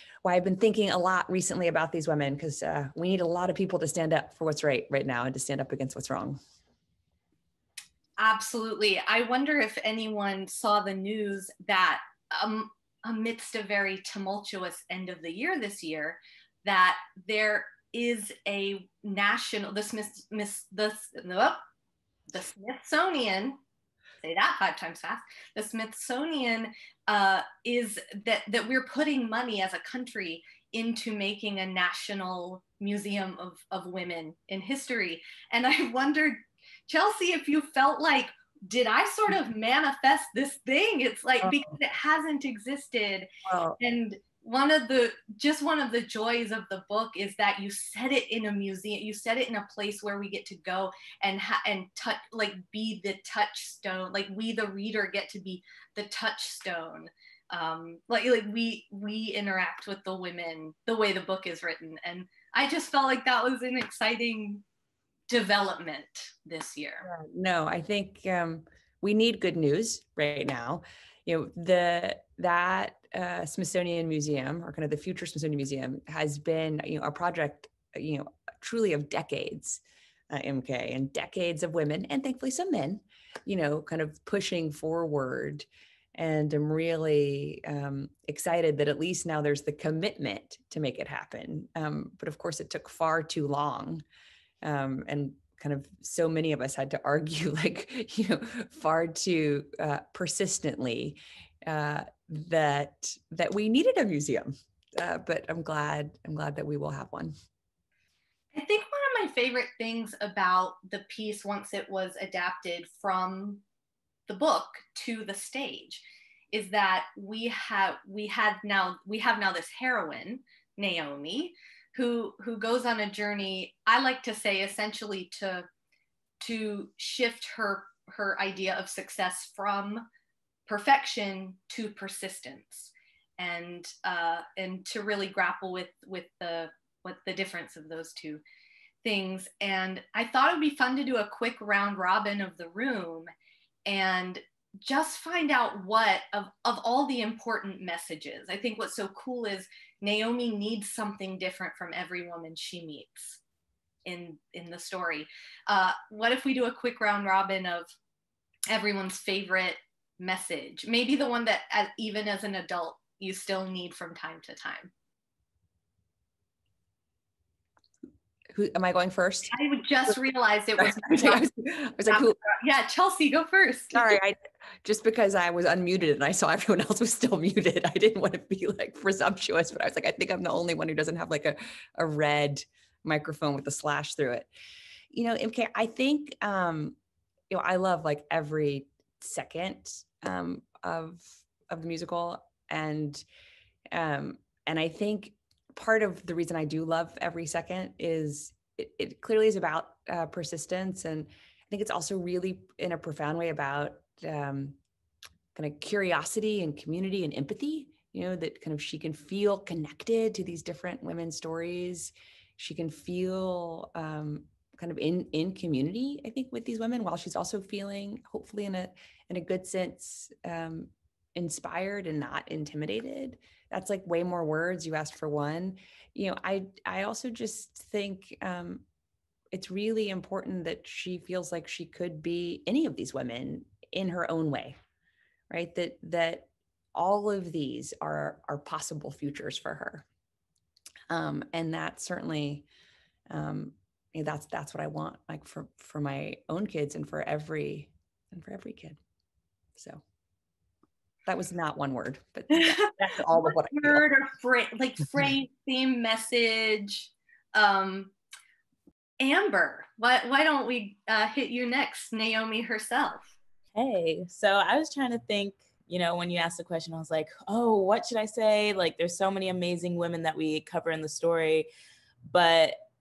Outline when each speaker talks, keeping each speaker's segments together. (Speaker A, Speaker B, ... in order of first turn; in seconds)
Speaker A: 0.2-6.4, 41.4-41.8, 43.4-43.8, 67.0-94.0, 94.6-107.3, 168.5-169.5, 170.8-172.4, 173.9-184.5, 185.1-187.0, 187.5-193.2, 193.9-204.8, 205.5-228.8, 229.5-234.8, 235.5-240.1, 241.1-242.7, 243.3-249.0, 249.8-250.0, 251.2-254.1
Speaker B: 8.2-21.6, 22.3-23.6, 24.2-64.6, 65.3-67.0, 108.5-113.6, 114.3-125.7, 126.4-130.1, 130.7-138.4, 139.0-143.3, 143.8-153.4, 154.0-157.9, 158.7-164.9, 169.5-171.5, 172.1-174.1, 252.5-258.1, 259.2-263.3
Speaker C: 263.7-271.7, 272.2-272.8